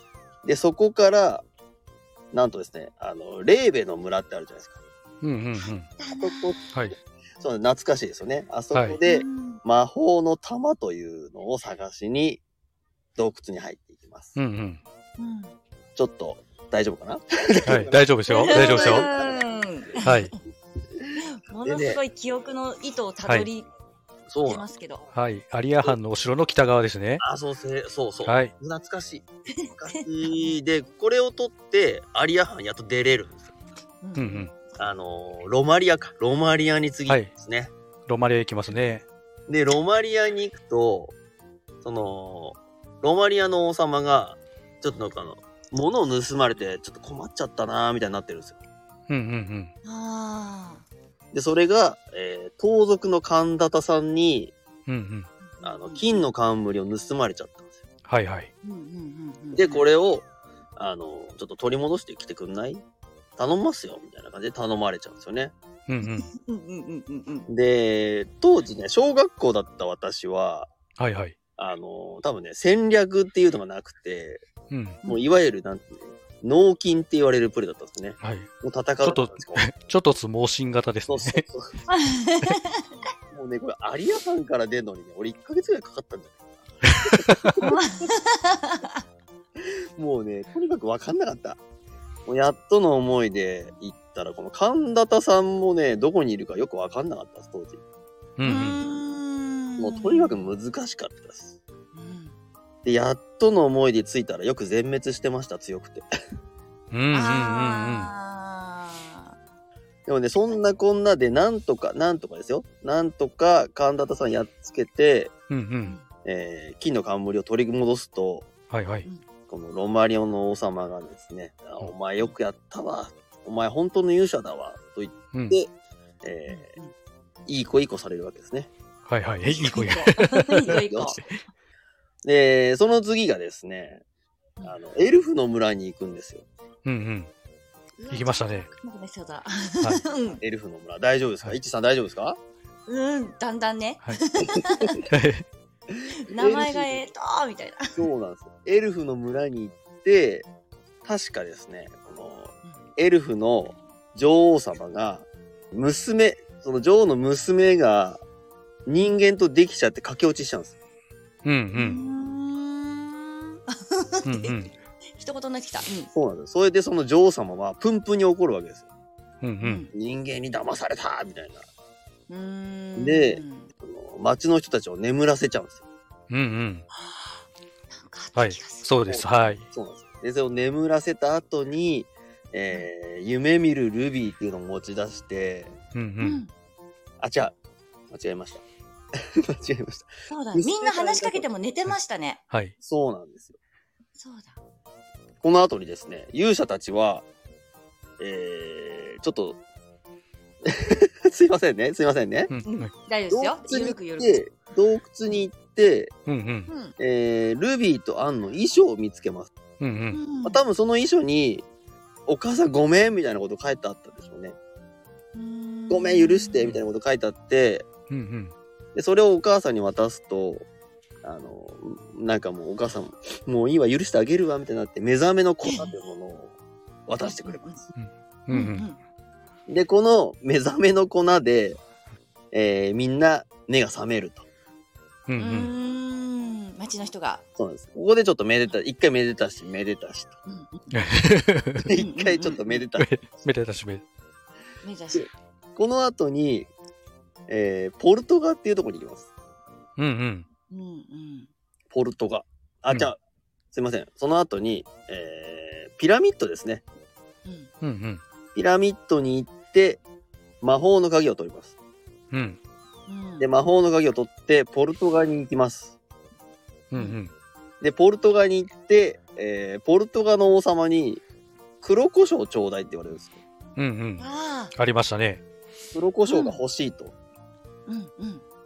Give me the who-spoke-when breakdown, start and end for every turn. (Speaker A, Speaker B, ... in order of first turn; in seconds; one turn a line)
Speaker A: 0.4-1.4
Speaker A: 2.3-4.8
Speaker B: 5.2-5.9
Speaker C: 6.0-6.5
Speaker A: 6.0-6.6
Speaker A: 7.4-12.4
Speaker B: 8.7-9.0
Speaker C: 9.1-9.6
Speaker A: 13.2-14.4
Speaker B: 14.3-14.8
Speaker C: 15.2-15.5
Speaker A: 15.9-19.6
Speaker B: 17.7-19.1
Speaker C: 18.3-20.4
Speaker B: 20.0-20.3
Speaker A: 21.0-22.0
Speaker C: 21.1-23.7
Speaker A: 24.3-24.6
Speaker C: 24.4-25.0
Speaker B: 25.1-27.2
Speaker A: 27.2-33.5
Speaker B: 28.2-28.5
Speaker C: 29.6-30.5
Speaker C: 34.0-34.5
Speaker B: 34.1-34.5
Speaker A: 34.8-37.7
Speaker B: 38.1-39.0
Speaker A: 39.5-41.1
Speaker A: 41.8-48.6
Speaker B: 49.1-49.7
Speaker C: 49.8-50.8
Speaker A: 51.3-54.5
Speaker B: 54.9-55.3
Speaker C: 55.5-56.0
Speaker A: 55.6-57.8
Speaker B: 58.1-58.5
Speaker C: 58.6-59.8
Speaker A: 59.5-60.2
Speaker A: 60.8-62.8
Speaker A: 63.4-65.5
Speaker B: 65.9-66.3
Speaker C: 66.0-67.5
Speaker A: 67.5-70.7
Speaker B: 71.0-71.3
Speaker A: 71.6-74.4
Speaker B: 74.7-75.0
Speaker A: 75.0-79.7
Speaker B: 78.2-78.5
Speaker B: 79.0-81.4
Speaker A: 81.1-81.8
Speaker C: 81.9-82.9
Speaker A: 83.3-87.7
Speaker B: 87.1-87.5
Speaker C: 87.6-89.0
Speaker A: 89.6-91.6
Speaker A: 92.2-97.8
Speaker B: 98.4-98.8
Speaker C: 98.4-100.5
Speaker A: 99.8-101.5
Speaker C: 101.9-102.3
Speaker A: 102.8-106.0
Speaker B: 106.9-108.1
Speaker C: 107.1-109.3
Speaker A: 110.1-115.3
Speaker B: 115.5-116.0
Speaker A: 116.2-118.5
Speaker B: 118.7-119.0
Speaker A: 119.5-125.7
Speaker B: 125.3-125.6
Speaker A: 126.2-126.7
Speaker C: 126.5-126.9
Speaker A: 127.5-128.7
Speaker B: 129.1-130.6
Speaker C: 129.4-131.3
Speaker A: 130.7-131.2
Speaker A: 132.2-134.0
Speaker A: 134.6-136.4
Speaker B: 136.8-137.3
Speaker C: 138.0-140.4
Speaker B: 138.1-138.7
Speaker A: 140.4-142.4
Speaker C: 142.9-145.1
Speaker A: 144.4-145.0
Speaker B: 145.1-145.4
Speaker A: 145.9-147.0
Speaker C: 146.2-148.0
Speaker A: 147.9-150.5
Speaker A: 151.0-158.2
Speaker A: 158.8-160.7
Speaker B: 161.4-162.0
Speaker C: 161.7-166.1
Speaker B: 164.2-164.7
Speaker A: 166.1-168.8
Speaker B: 169.4-169.8
Speaker C: 169.6-169.9
Speaker A: 169.9-171.6
Speaker C: 172.3-173.7
Speaker A: 172.9-175.8
Speaker B: 176.3-176.8
Speaker C: 177.0-177.3
Speaker C: 177.9-179.5
Speaker B: 178.3-179.6
Speaker A: 179.1-185.8
Speaker B: 185.9-186.4
Speaker C: 186.2-186.5
Speaker A: 187.2-187.5
Speaker A: 188.1-188.6
Speaker A: 189.2-191.4
Speaker C: 190.3-192.4
Speaker A: 192.8-193.6
Speaker C: 194.2-194.6
Speaker A: 195.4-197.2
Speaker A: 198.2-199.6
Speaker A: 200.7-202.5
Speaker B: 202.5-202.9
Speaker C: 202.6-204.4
Speaker A: 203.3-206.1
Speaker B: 206.3-206.7
Speaker C: 206.7-206.9
Speaker A: 207.0-209.5
Speaker B: 209.8-210.2
Speaker C: 210.1-210.6
Speaker A: 210.4-211.7
Speaker A: 212.3-214.6
Speaker C: 215.3-216.7
Speaker A: 215.9-217.8
Speaker B: 218.1-218.5
Speaker A: 218.9-220.6
Speaker A: 221.2-226.5
Speaker C: 225.6-225.9
Speaker A: 227.1-227.8
Speaker C: 227.2-227.8
Speaker B: 227.9-228.9
Speaker C: 228.5-229.0
Speaker A: 229.7-231.8
Speaker A: 232.5-234.4
Speaker B: 235.3-235.7
Speaker C: 235.4-237.4
Speaker A: 237.6-240.3
Speaker C: 240.4-240.9
Speaker B: 240.9-241.9
Speaker A: 241.8-243.4
Speaker C: 241.9-242.8
Speaker B: 243.0-244.0
Speaker C: 244.8-245.3
Speaker A: 245.1-246.7
Speaker A: 247.5-249.3
Speaker B: 250.0-250.4
Speaker C: 250.7-251.5
Speaker A: 251.9-253.2
Speaker A: 253.7-256.8
Speaker C: 257.4-257.7
Speaker B: 257.8-258.2
Speaker A: 258.5-260.0
Speaker A: 260.6-261.7
Speaker B: 262.3-262.6
Speaker C: 263.1-263.5
Speaker A: 263.4-265.9
Speaker B: 266.9-267.3
Speaker A: 267.8-271.2
Speaker A: 271.8-273.4
Speaker B: 273.8-275.4
Speaker C: 274.2-274.7
Speaker A: 275.9-277.1
Speaker C: 276.3-276.6
Speaker C: 277.9-278.4